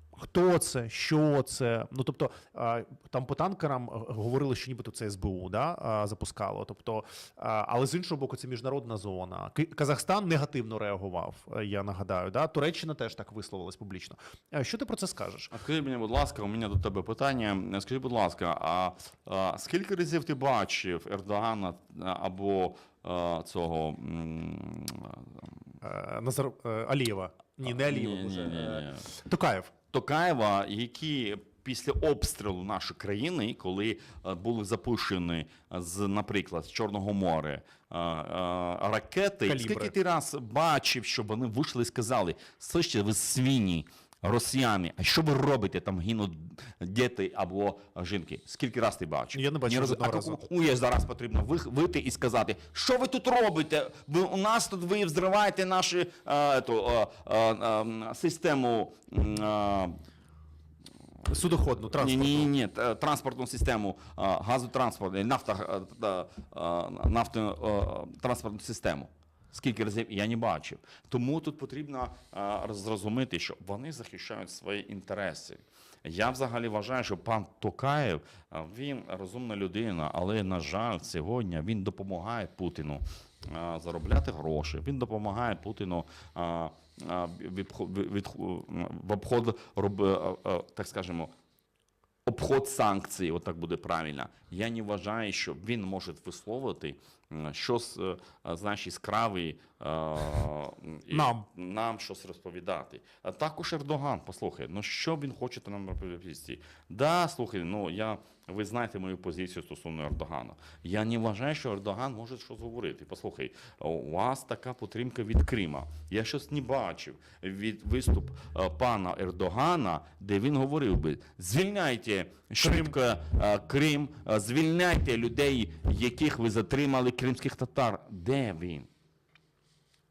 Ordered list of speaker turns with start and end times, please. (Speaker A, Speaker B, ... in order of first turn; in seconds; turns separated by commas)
Speaker A: 0.2-15.5, Speaker B: 15.5-25.6, Speaker A: 25.8-29.7, Speaker B: 27.6-29.1, Speaker B: 29.9-59.9, Speaker A: 39.4-39.9, Speaker A: 49.3-50.4, Speaker A: 61.3-62.5, Speaker B: 61.9-91.3, Speaker B: 92.3-128.9, Speaker A: 101.1-101.5, Speaker A: 122.6-122.9